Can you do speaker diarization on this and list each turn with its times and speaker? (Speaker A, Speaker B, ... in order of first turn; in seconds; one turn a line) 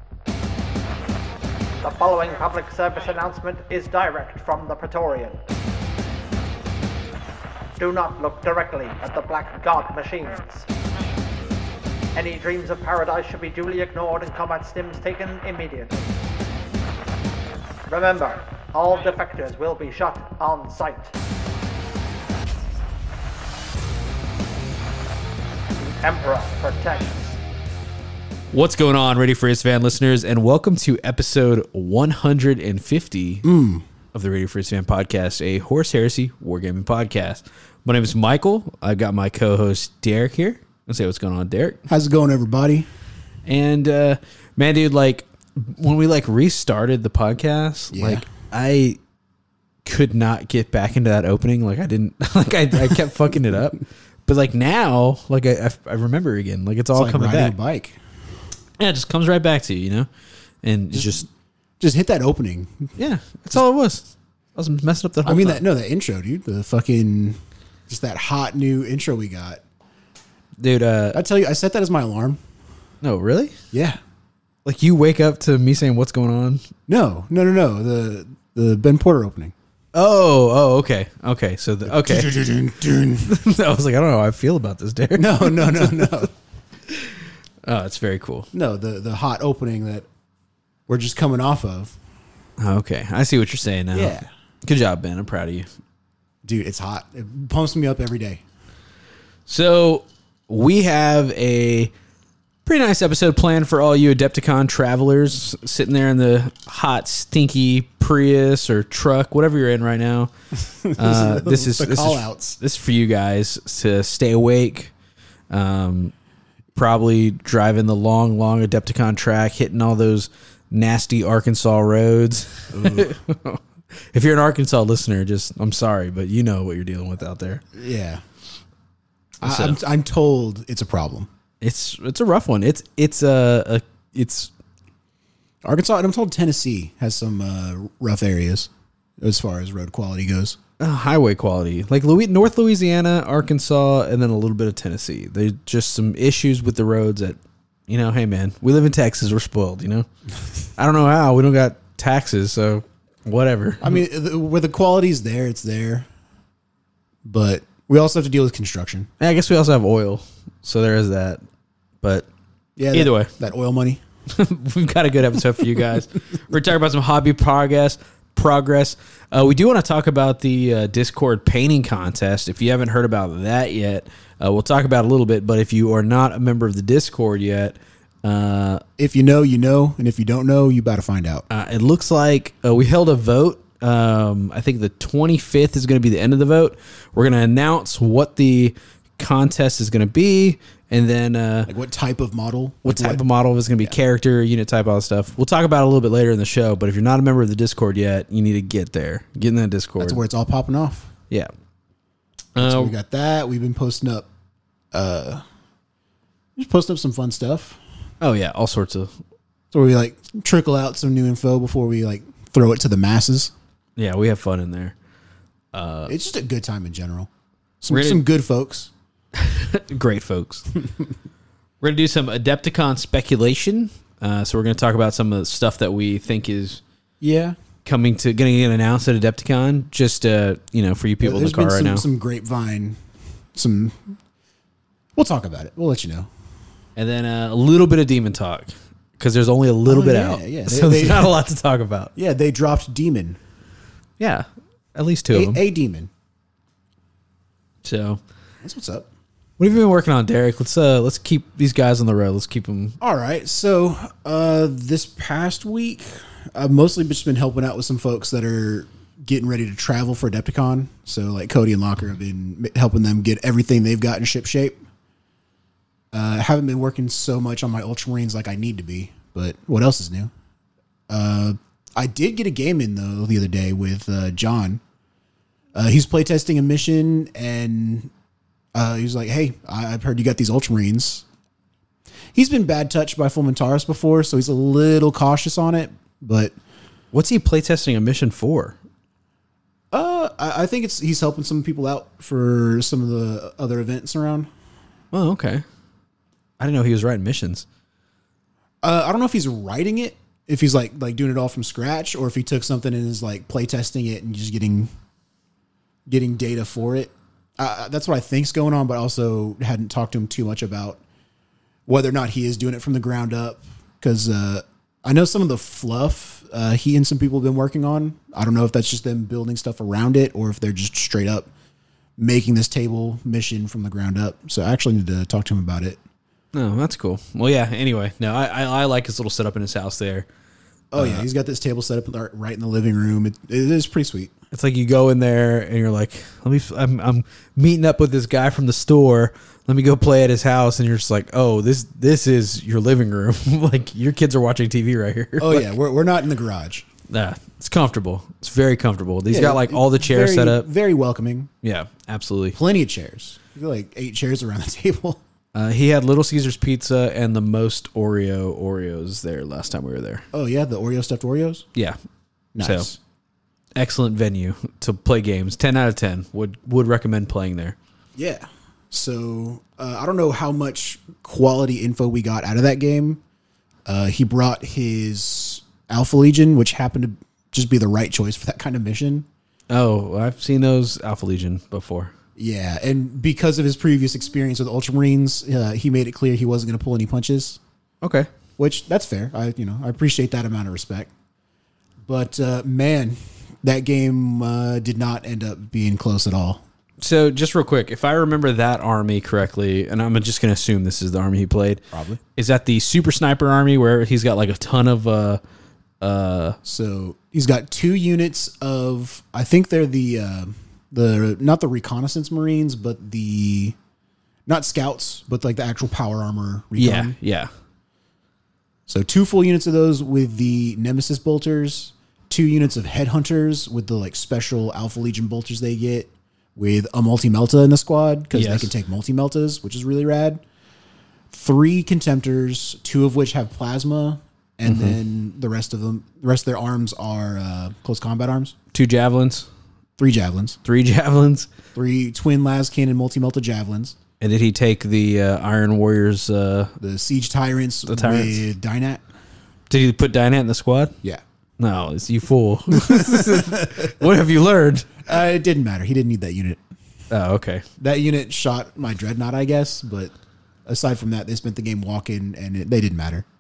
Speaker A: 1.8-5.4
Speaker A: 7.8-10.7
Speaker A: 12.1-16.1
Speaker A: 17.9-21.1
Speaker A: 25.8-27.4
Speaker B: 28.5-33.4
Speaker C: 33.4-33.8
Speaker B: 34.1-41.8
Speaker C: 41.9-42.9
Speaker B: 43.5-49.0
Speaker C: 47.9-48.2
Speaker B: 49.8-57.5
Speaker C: 56.9-58.0
Speaker B: 58.8-60.1
Speaker B: 60.6-61.2
Speaker C: 60.9-61.3
Speaker C: 61.8-62.9
Speaker B: 63.0-65.6
Speaker C: 65.2-67.4
Speaker C: 67.9-69.6
Speaker B: 70.6-71.2
Speaker C: 71.1-72.4
Speaker B: 73.0-73.5
Speaker C: 73.7-74.0
Speaker B: 74.6-76.6
Speaker C: 76.9-79.5
Speaker B: 79.9-82.3
Speaker C: 81.8-83.3
Speaker B: 83.2-86.2
Speaker C: 85.1-86.3
Speaker B: 86.9-88.5
Speaker C: 88.5-90.1
Speaker C: 90.9-92.0
Speaker B: 92.6-95.7
Speaker C: 93.9-94.3
Speaker C: 96.4-98.4
Speaker B: 99.5-101.9
Speaker B: 102.7-110.3
Speaker C: 110.8-112.6
Speaker B: 110.9-114.9
Speaker B: 115.5-116.1
Speaker B: 116.7-127.6
Speaker C: 122.7-123.1
Speaker C: 127.7-128.2
Speaker B: 129.4-129.8
Speaker C: 129.4-131.3
Speaker B: 131.6-134.5
Speaker C: 135.6-140.6
Speaker B: 140.8-150.1
Speaker B: 150.8-154.0
Speaker C: 153.8-156.1
Speaker C: 157.2-159.1
Speaker B: 159.2-161.4
Speaker B: 162.0-162.3
Speaker C: 162.8-164.0
Speaker B: 162.9-163.3
Speaker B: 164.3-178.8
Speaker C: 179.0-181.4
Speaker B: 181.5-191.7
Speaker C: 191.7-193.2
Speaker B: 192.8-200.2
Speaker C: 200.0-201.1
Speaker B: 202.5-202.9
Speaker C: 202.6-204.3
Speaker C: 204.9-205.4
Speaker C: 206.6-207.8
Speaker B: 208.2-209.1
Speaker C: 209.7-213.5
Speaker B: 214.0-214.9
Speaker B: 215.7-216.2
Speaker C: 216.1-217.3
Speaker C: 217.8-218.9
Speaker B: 217.9-218.2
Speaker B: 219.3-220.7
Speaker B: 221.8-226.8
Speaker C: 227.2-227.6
Speaker B: 227.8-232.1
Speaker C: 231.2-233.0
Speaker C: 233.5-234.2
Speaker C: 235.1-236.3
Speaker B: 236.9-242.1
Speaker C: 239.8-241.3
Speaker C: 242.2-243.4
Speaker B: 244.2-245.6
Speaker C: 245.3-246.1
Speaker B: 247.8-248.2
Speaker C: 248.6-249.1
Speaker B: 249.6-253.0
Speaker C: 253.0-264.8
Speaker C: 266.1-270.3
Speaker C: 271.1-274.8
Speaker C: 275.7-278.1
Speaker C: 278.7-281.2
Speaker C: 282.3-286.5
Speaker B: 287.1-288.8
Speaker C: 289.9-294.5
Speaker B: 295.1-295.6
Speaker B: 296.6-297.6
Speaker C: 298.8-304.9
Speaker C: 306.1-311.0
Speaker C: 311.9-321.5
Speaker C: 322.2-326.0
Speaker B: 326.5-330.3
Speaker C: 330.9-334.3
Speaker B: 330.9-331.3
Speaker B: 334.5-345.7
Speaker C: 345.4-346.9
Speaker B: 347.1-350.6
Speaker C: 349.3-351.5
Speaker B: 351.6-352.6
Speaker C: 352.5-355.2
Speaker B: 355.5-360.2
Speaker C: 360.3-361.7
Speaker C: 362.5-363.0
Speaker B: 362.6-362.9
Speaker B: 363.8-367.8
Speaker C: 368.1-373.2
Speaker C: 373.9-379.3
Speaker B: 379.7-382.1
Speaker C: 382.4-387.6
Speaker B: 388.0-388.3
Speaker C: 388.6-391.1
Speaker C: 392.1-396.6
Speaker B: 397.0-401.8
Speaker C: 401.9-402.2
Speaker B: 402.3-405.4
Speaker B: 406.0-406.6
Speaker C: 406.6-413.8
Speaker C: 414.5-417.1
Speaker B: 416.8-417.5
Speaker C: 418.9-430.4
Speaker B: 428.3-428.7
Speaker C: 431.3-438.5
Speaker B: 434.6-435.0
Speaker B: 438.7-439.5
Speaker C: 440.0-440.6
Speaker B: 440.6-441.5
Speaker C: 441.7-444.0
Speaker B: 444.2-446.7
Speaker C: 446.8-449.0
Speaker B: 447.9-448.4
Speaker B: 449.7-450.9
Speaker B: 451.6-455.1
Speaker C: 452.7-453.9
Speaker C: 455.1-456.6
Speaker B: 457.1-457.6
Speaker C: 457.8-460.1
Speaker C: 460.6-463.2